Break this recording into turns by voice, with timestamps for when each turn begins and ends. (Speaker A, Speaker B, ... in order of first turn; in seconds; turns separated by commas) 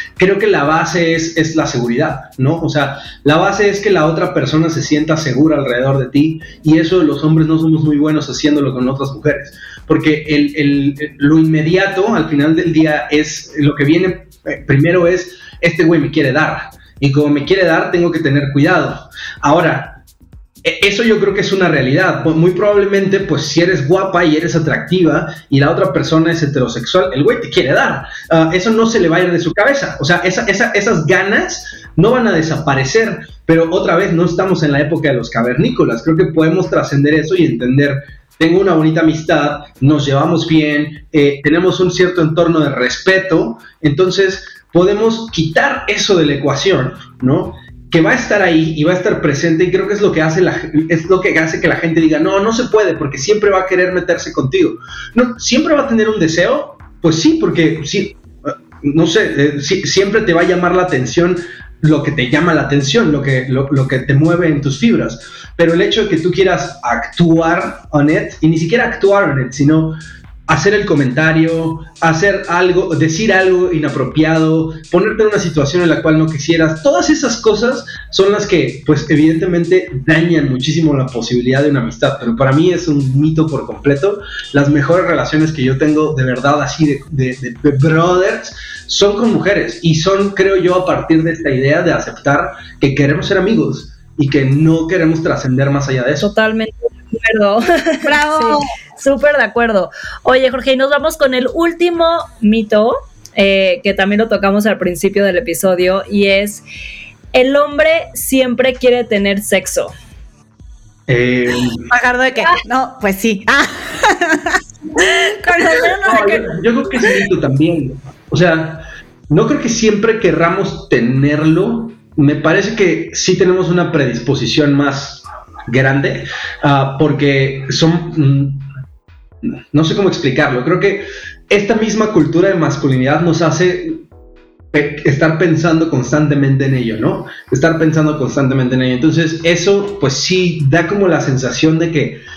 Speaker A: 0.2-20.0, Speaker A: 20.6-70.0, Speaker A: 70.5-96.3, Speaker B: 96.2-106.6, Speaker C: 98.0-98.7, Speaker B: 107.3-109.9, Speaker A: 111.1-111.9, Speaker C: 111.9-116.5, Speaker A: 116.0-128.7, Speaker A: 129.4-134.0, Speaker A: 134.7-142.2